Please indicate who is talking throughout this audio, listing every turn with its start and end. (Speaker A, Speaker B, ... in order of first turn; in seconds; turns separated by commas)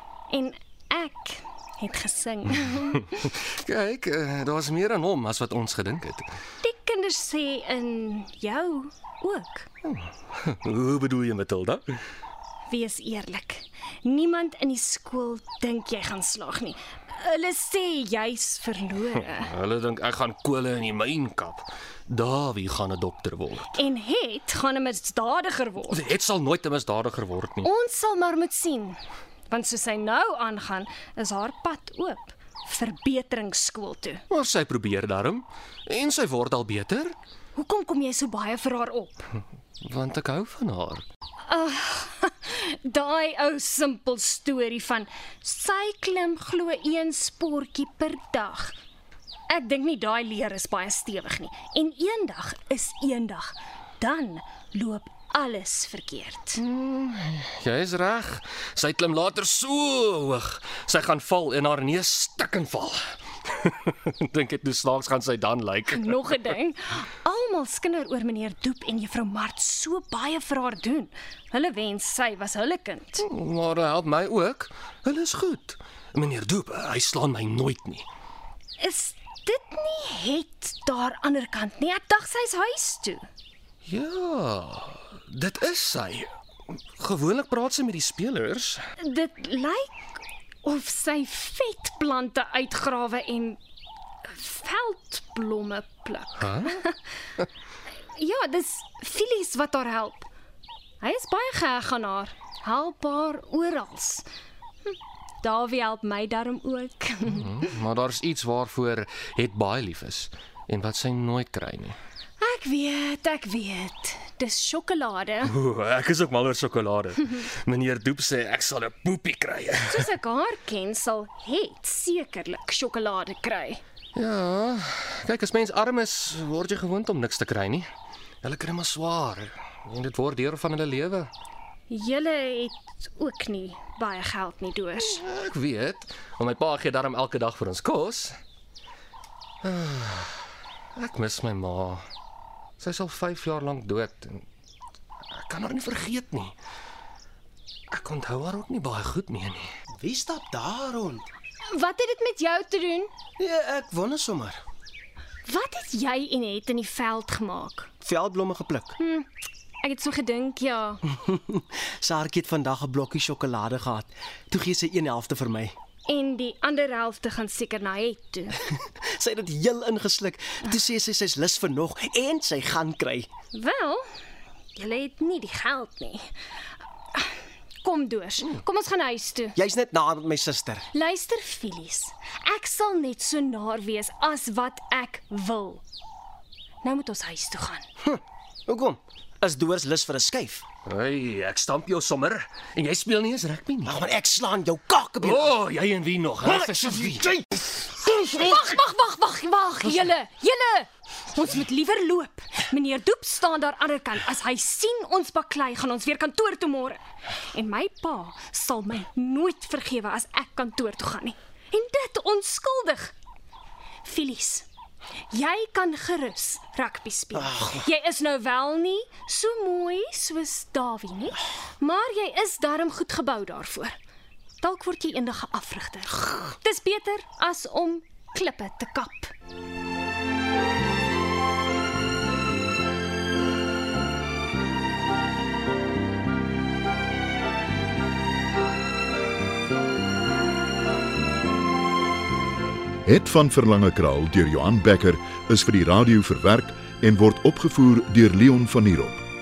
Speaker A: 0.3-3.2, Speaker B: 3.1-6.3, Speaker A: 6.6-9.7, Speaker B: 9.8-12.0, Speaker A: 12.7-19.5, Speaker B: 19.2-23.8, Speaker A: 23.7-26.1, Speaker B: 25.9-27.7, Speaker A: 27.6-29.0, Speaker A: 29.5-34.2, Speaker B: 34.3-37.1, Speaker A: 37.5-39.3, Speaker B: 39.8-41.0, Speaker A: 41.5-48.7, Speaker A: 49.5-56.6, Speaker B: 56.6-66.6, Speaker A: 65.9-73.3, Speaker B: 73.2-78.1, Speaker A: 78.8-83.2, Speaker B: 83.9-86.3, Speaker B: 87.0-88.8, Speaker A: 89.0-90.1, Speaker A: 90.6-93.6, Speaker A: 94.2-97.0, Speaker B: 96.4-96.8, Speaker A: 98.2-100.2, Speaker A: 101.0-104.2, Speaker A: 104.8-107.7, Speaker B: 107.3-112.0, Speaker A: 112.4-115.5, Speaker B: 115.5-120.1, Speaker A: 119.9-123.8, Speaker B: 124.1-127.9, Speaker B: 128.4-131.3, Speaker A: 131.9-135.2, Speaker B: 135.0-138.4, Speaker B: 139.6-140.4, Speaker B: 141.0-142.0, Speaker B: 142.8-144.5, Speaker B: 145.3-146.5, Speaker B: 147.9-149.7, Speaker C: 150.0-151.2, Speaker A: 151.7-153.1, Speaker C: 153.4-154.6, Speaker A: 155.5-157.9, Speaker C: 158.0-158.9, Speaker A: 159.0-159.3, Speaker A: 159.8-161.0, Speaker C: 161.1-165.8, Speaker A: 166.1-168.6, Speaker C: 168.7-173.3, Speaker A: 173.5-174.0, Speaker A: 174.8-176.3, Speaker A: 177.8-179.6, Speaker C: 179.6-180.9, Speaker A: 180.9-185.8, Speaker A: 186.8-187.8, Speaker C: 188.0-190.6, Speaker B: 190.8-194.0, Speaker C: 193.8-195.5, Speaker B: 195.2-197.4, Speaker C: 196.6-196.9, Speaker A: 198.4-207.0, Speaker A: 207.5-213.1, Speaker A: 214.0-214.7, Speaker A: 215.3-223.9, Speaker C: 217.3-217.9, Speaker A: 224.6-229.3, Speaker D: 243.0-249.2